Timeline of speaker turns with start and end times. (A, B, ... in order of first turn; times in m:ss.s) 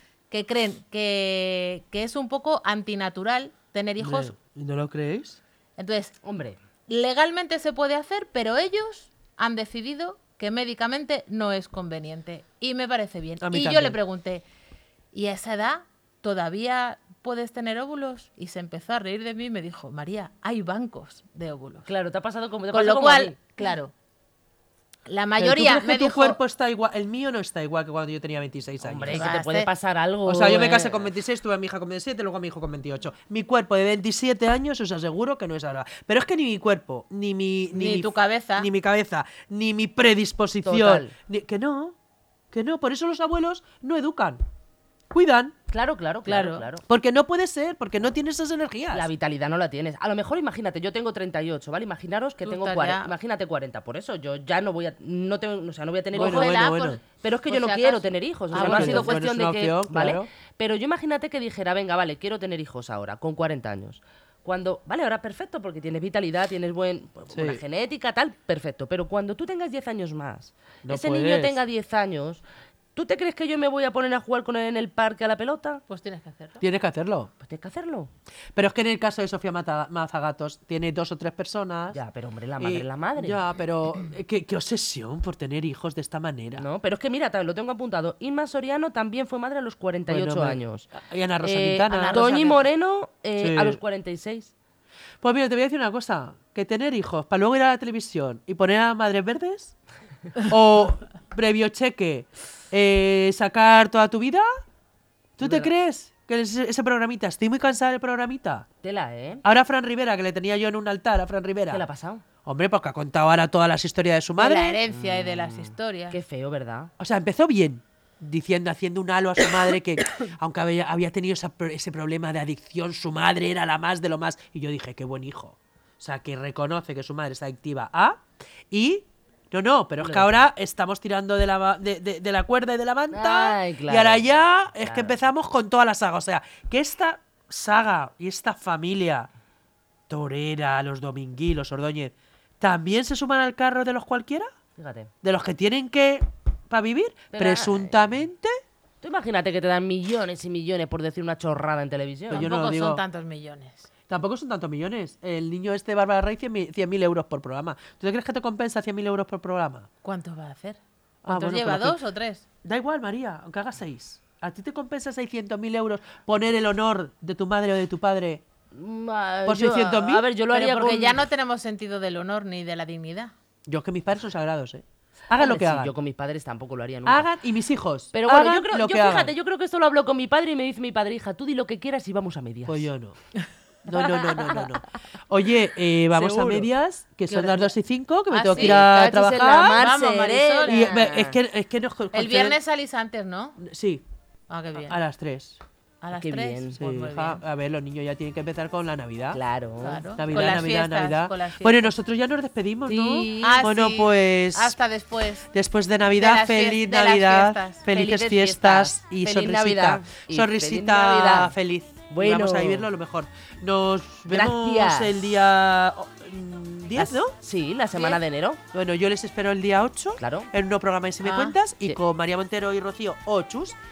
0:00.3-0:04.3 A
0:04.0-0:05.4 B
0:05.8-0:06.1 A
0:06.2-0:06.6 C
0:06.9-0:14.4 A
0:13.4-0:14.0 B
0:15.1-0:21.8 A
0:21.8-0:23.4 C
0:22.7-0:23.9 A
0:25.1-0:26.4 A
0:25.4-0:29.3 B
0:28.8-0:31.1 C
0:29.1-0:29.7 A
0:30.2-0:42.0 B
0:37.7-0:38.7 A
0:40.6-0:41.1 C
0:42.5-0:44.4 B
0:45.1-0:45.5 B
0:45.7-0:46.8 C
0:46.2-0:46.7 A
0:46.8-0:49.1 B
0:48.9-1:12.4 C
0:52.4-0:53.1 A
0:56.1-0:59.2 A
0:56.1-0:57.0 B
0:58.5-1:00.3 B
1:07.3-1:07.6 B
1:10.8-1:11.6 B
1:12.9-1:15.8 C
1:15.9-1:16.6 A
1:16.6-1:17.3 B
1:17.4-1:18.1 C
1:18.5-1:22.0 B
1:21.9-1:23.4 C
1:22.6-1:26.6 B
1:26.6-1:34.5 C
1:30.1-1:32.2 B
1:31.9-1:32.6 A
1:33.4-1:33.8 B
1:35.2-1:39.7 B
1:40.4-1:44.5 B
1:45.4-1:48.6 B
1:45.4-1:45.7 C
1:48.8-1:49.4 C
1:49.4-1:51.8 B
1:51.7-1:52.2 C
1:52.4-1:54.8 B
1:54.4-1:56.2 A
1:54.9-1:56.9 C
1:57.0-2:19.3 B
2:10.0-2:10.4 C
2:13.1-2:14.2 C
2:14.8-2:15.2 C
2:20.1-2:24.5 B
2:24.8-2:25.1 C
2:25.2-2:28.5 B
2:27.3-2:28.1 C
2:29.0-2:32.5 C
2:32.3-2:33.9 A
2:32.3-2:33.0 B
2:34.1-2:39.9 B
2:40.0-2:42.4 A
2:41.2-2:42.0 B
2:42.6-2:48.4 B
2:48.7-2:51.2 C
2:49.4-2:50.3 B
2:50.5-2:53.3 A
2:53.7-2:55.9 B
2:55.4-2:57.3 C
2:57.0-2:59.3 B
2:58.1-3:02.9 C
3:02.7-3:03.2 B
3:03.8-3:09.8 B
3:04.2-3:04.7 C
3:06.1-3:06.7 C
3:07.3-3:07.8 A
3:08.3-3:11.4 C
3:08.5-3:08.9 A
3:09.6-3:10.9 A
3:10.7-3:12.6 B
3:12.1-3:13.6 A
3:13.6-3:14.0 B
3:14.5-3:15.0 A
3:14.8-3:15.6 B
3:16.0-3:17.4 A
3:16.1-3:16.8 C
3:16.7-3:19.4 B
3:19.3-3:20.1 C
3:19.8-3:21.9 A
3:20.2-3:24.8 B
3:22.9-3:23.6 C
3:23.4-3:25.5 A
3:25.5-3:37.3 B
3:26.1-3:27.8 A
3:27.9-3:31.5 C
3:32.1-3:32.9 C
3:34.3-3:35.2 C
3:37.0-3:38.6 C
3:38.7-3:43.8 B
3:40.2-3:40.5 C
3:41.2-3:41.6 A